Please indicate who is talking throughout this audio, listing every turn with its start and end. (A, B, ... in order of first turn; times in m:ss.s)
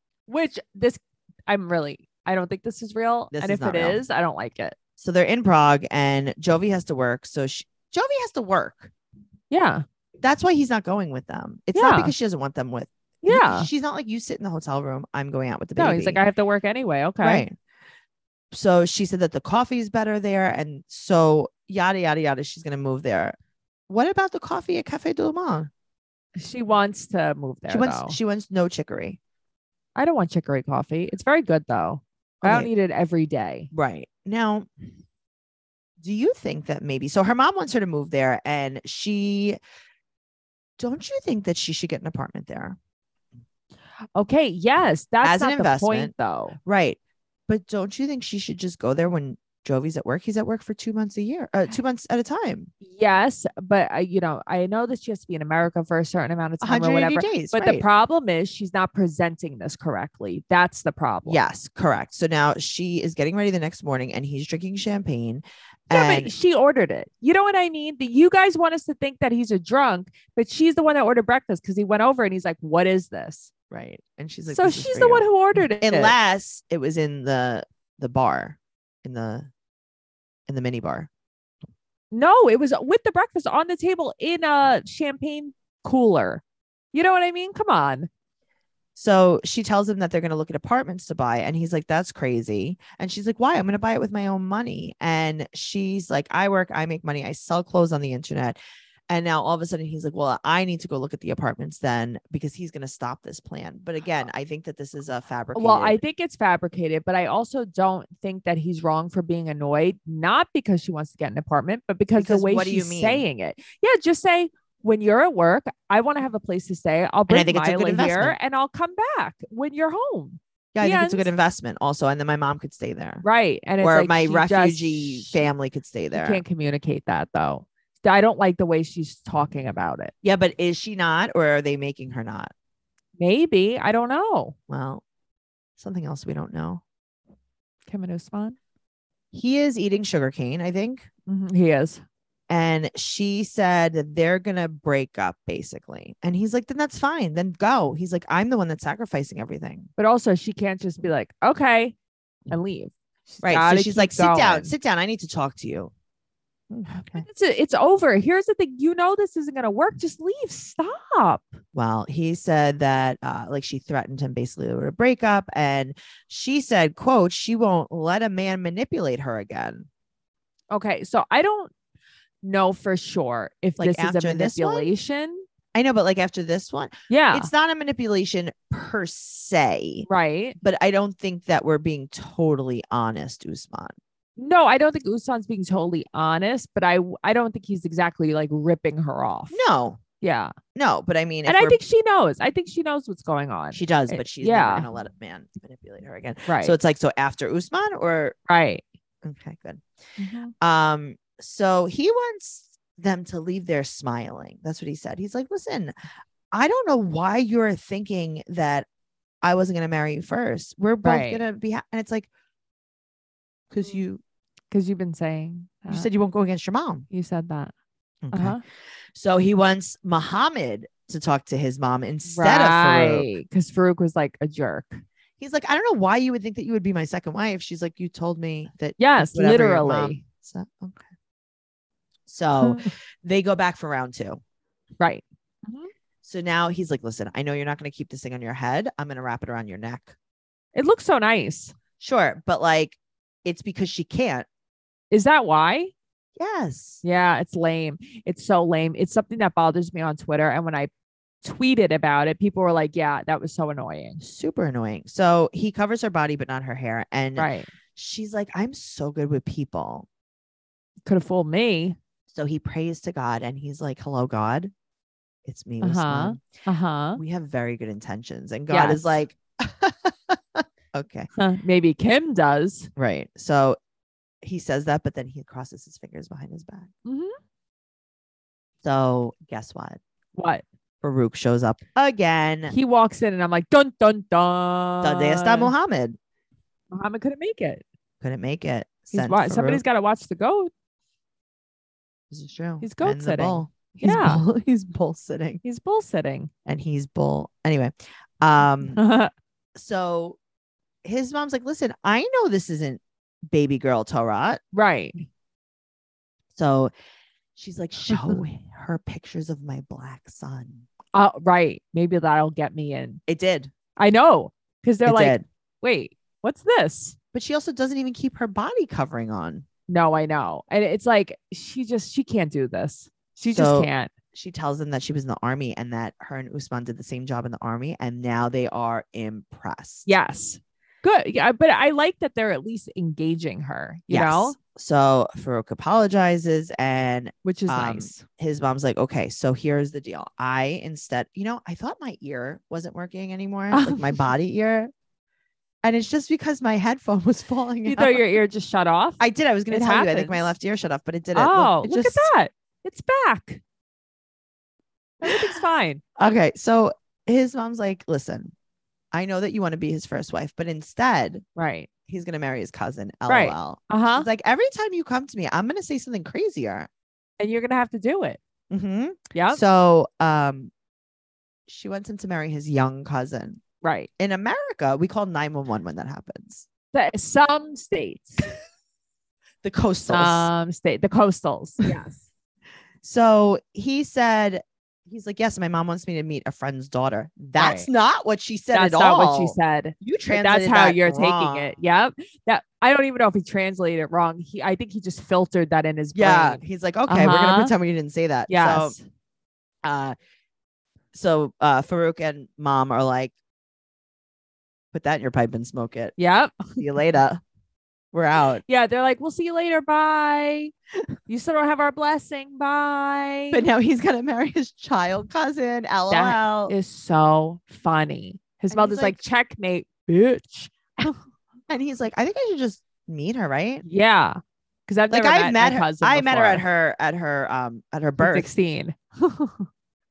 0:00.3-0:04.8 A
0:03.3-0:04.0 B
0:05.0-0:08.9 B
0:09.5-0:09.8 A
0:10.2-0:16.2 B
0:11.7-0:12.1 A
0:13.2-0:13.7 A
0:15.8-0:17.4 A
0:17.2-0:17.5 B
0:18.5-0:23.4 B
0:23.9-0:25.7 B
0:26.4-0:28.2 A
0:27.7-0:29.2 B
0:30.0-0:33.7 A
0:32.4-0:32.7 B
0:33.7-0:34.7 B
0:36.0-0:39.6 B
0:40.8-0:42.8 B
0:44.2-0:46.6 A
0:45.2-0:46.1 B
0:46.6-0:52.7 B
0:52.8-1:01.4 A
0:56.6-0:57.8 B
1:01.2-1:06.3 B
1:05.9-1:13.5 A
1:13.7-1:15.3 B
1:14.5-1:16.1 A
1:15.8-1:19.5 B
1:20.5-1:21.1 B
1:22.1-1:28.1 A
1:29.0-1:38.6 B
1:39.1-1:46.0 B
1:45.5-2:01.3 A
1:52.2-1:53.2 B
1:57.3-1:58.4 B
2:00.7-2:03.2 B
2:03.2-2:05.4 A
2:03.8-2:06.4 B
2:06.1-2:10.1 A
2:10.2-2:12.5 B
2:13.2-2:14.5 A
2:14.7-2:15.0 B
2:15.8-2:16.8 B
2:17.9-2:18.6 A
2:19.3-2:21.1 B
2:21.3-2:22.0 A
2:22.5-2:29.9 B
2:30.0-2:32.0 A
2:32.5-2:34.7 A
2:33.4-2:35.9 B
2:36.7-2:37.2 B
2:37.1-2:41.6 A
2:41.7-2:49.9 B
2:50.7-2:51.7 A
2:52.4-2:55.4 A
2:53.8-2:54.9 B
2:55.7-3:00.1 B
2:57.1-2:57.5 A
3:00.1-3:00.6 A
3:00.6-3:04.0 B
3:04.4-3:09.6 A
3:09.5-3:10.0 B
3:10.2-3:10.5 A
3:10.7-3:11.8 B
3:11.4-3:14.9 A
3:13.7-3:18.4 B
3:16.5-3:16.8 A
3:18.5-3:18.8 A
3:19.2-3:19.8 B
3:20.2-3:20.5 A
3:20.6-3:25.9 B
3:26.5-3:28.9 B
3:29.4-3:32.3 B
3:31.0-3:31.4 A
3:33.7-3:34.2 B
3:34.7-3:36.1 A
3:35.9-3:37.0 B
3:37.1-3:37.7 A
3:38.2-3:38.6 B
3:38.3-3:38.6 A
3:39.1-3:43.3 B
3:42.3-3:45.0 A
3:45.4-3:51.0 B
3:49.0-3:50.2 A
3:52.3-3:54.4 B
3:52.6-3:52.9 A
3:55.0-3:55.9 A
3:56.2-4:00.1 B
4:00.7-4:01.7 A
4:02.0-4:04.5 B
4:05.1-4:05.9 A
4:06.4-4:07.0 B
4:07.0-4:10.9 A
4:11.4-4:14.2 A
4:14.2-4:20.1 B
4:17.4-4:17.7 A
4:21.0-4:22.0 A
4:22.3-4:24.7 B
4:25.4-4:26.4 B
4:25.8-4:27.2 A
4:27.2-4:31.3 B
4:28.7-4:29.1 A
4:31.4-4:32.9 A
4:33.0-4:33.8 B
4:34.4-4:36.9 B
4:37.0-4:37.4 A
4:38.8-4:40.0 B
4:40.3-4:40.6 A
4:41.0-4:42.7 B
4:42.7-4:45.7 A
4:45.0-4:46.2 B
4:46.9-4:47.8 A
4:48.2-4:49.8 B
4:49.1-4:50.7 A
4:52.3-4:55.6 B
4:52.8-4:54.4 A
4:55.6-4:56.5 A
4:56.6-4:59.0 B
4:58.9-4:59.3 A
4:59.7-5:00.4 B
5:01.0-5:04.6 B
5:04.7-5:05.3 A
5:06.5-5:06.9 B
5:07.6-5:10.9 B
5:08.1-5:08.4 A
5:11.1-5:13.2 A
5:13.3-5:13.7 B
5:14.0-5:17.2 A
5:15.0-5:15.4 B
5:17.3-5:19.6 B
5:19.9-5:24.1 A
5:23.5-5:30.1 B
5:30.0-5:34.6 A
5:34.1-5:44.9 B
5:37.4-5:38.2 A
5:43.7-5:44.2 A
5:45.8-5:48.2 B
5:47.8-5:50.5 A
5:49.2-5:52.3 B
5:51.3-5:53.6 A
5:55.2-5:55.6 B
5:55.2-5:56.0 A
5:56.2-5:58.5 B
5:59.1-6:01.4 B
6:01.6-6:01.9 A
6:02.1-6:06.9 B
6:03.3-6:04.3 A
6:07.4-6:08.4 A
6:08.7-6:10.7 B
6:09.3-6:09.6 A
6:11.7-6:13.6 B
6:13.8-6:14.1 A
6:14.2-6:16.6 B
6:16.9-6:18.5 A
6:19.6-6:20.5 B
6:20.1-6:22.2 A
6:23.0-6:31.7 B
6:27.6-6:27.9 A
6:28.7-6:37.7 A
6:36.1-6:39.0 B
6:38.5-6:39.0 A
6:39.8-6:40.1 B
6:41.1-6:43.3 B
6:44.9-6:46.1 B
6:46.2-6:46.8 A
6:46.8-6:47.4 B
6:48.1-6:48.6 B
6:48.6-6:50.7 A
6:51.3-6:53.6 A
6:53.5-6:56.7 B
6:56.1-7:01.1 A
6:58.7-6:59.2 B
7:01.7-7:03.8 B
7:03.8-7:06.6 A
7:05.1-7:08.5 B
7:08.2-7:09.6 A